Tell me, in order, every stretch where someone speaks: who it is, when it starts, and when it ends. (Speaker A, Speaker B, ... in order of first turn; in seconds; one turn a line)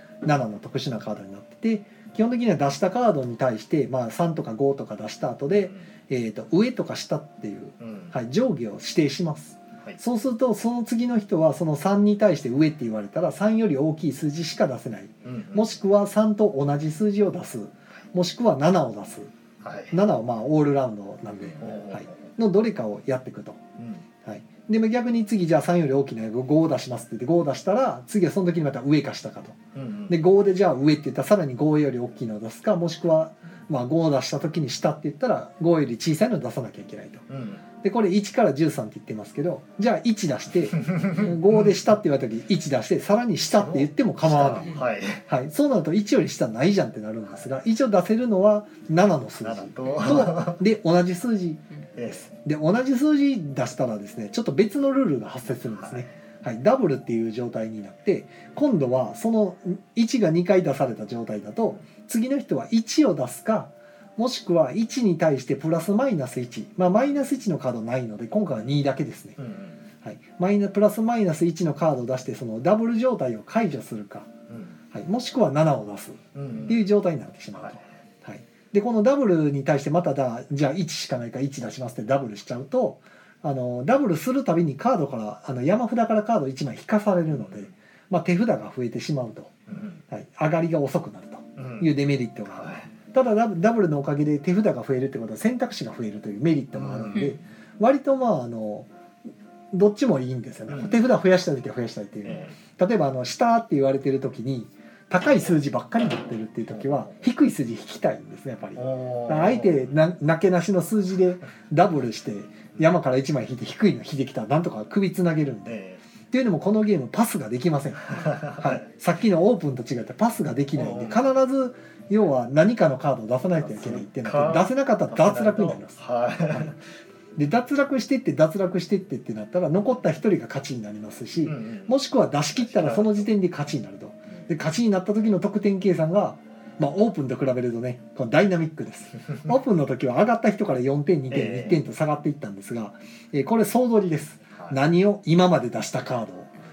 Speaker A: 0.2-19.3
Speaker B: 5.5-5.9
Speaker B: 7.8-8.2
Speaker B: 15.2-15.8
Speaker B: 19.6-20.0
Speaker A: 19.9-23.6
Speaker B: 21.6-22.3
Speaker B: 23.8-24.0
Speaker A: 24.2-37.2
Speaker B: 29.7-30.2
Speaker B: 37.3-37.6
Speaker A: 37.8-51.6
Speaker B: 40.7-41.7
Speaker B: 43.5-45.2
Speaker B: 49.4-50.6
Speaker B: 52.0-52.3
Speaker A: 52.3-69.4
Speaker B: 55.8-56.1
Speaker B: 69.4-69.8
Speaker A: 70.0-74.3
Speaker B: 74.5-74.8
Speaker A: 74.9-89.5
Speaker B: 76.3-76.8
Speaker B: 77.5-77.8
Speaker B: 87.3-87.7
Speaker B: 89.7-90.0
Speaker A: 90.1-98.9
Speaker B: 91.5-91.9
Speaker B: 92.5-92.9
Speaker B: 96.7-97.4
Speaker A: 99.7-115.8
Speaker B: 100.7-101.0
Speaker B: 102.2-102.5
Speaker B: 106.7-107.2
Speaker B: 108.8-109.9
Speaker B: 115.7-116.0
Speaker A: 116.3-126.0
Speaker B: 118.1-118.8
Speaker B: 120.7-121.2
Speaker B: 123.6-126.8
Speaker A: 127.3-146.5
Speaker B: 131.4-131.9
Speaker B: 132.5-133.3
Speaker B: 141.3-141.8
Speaker B: 144.5-144.8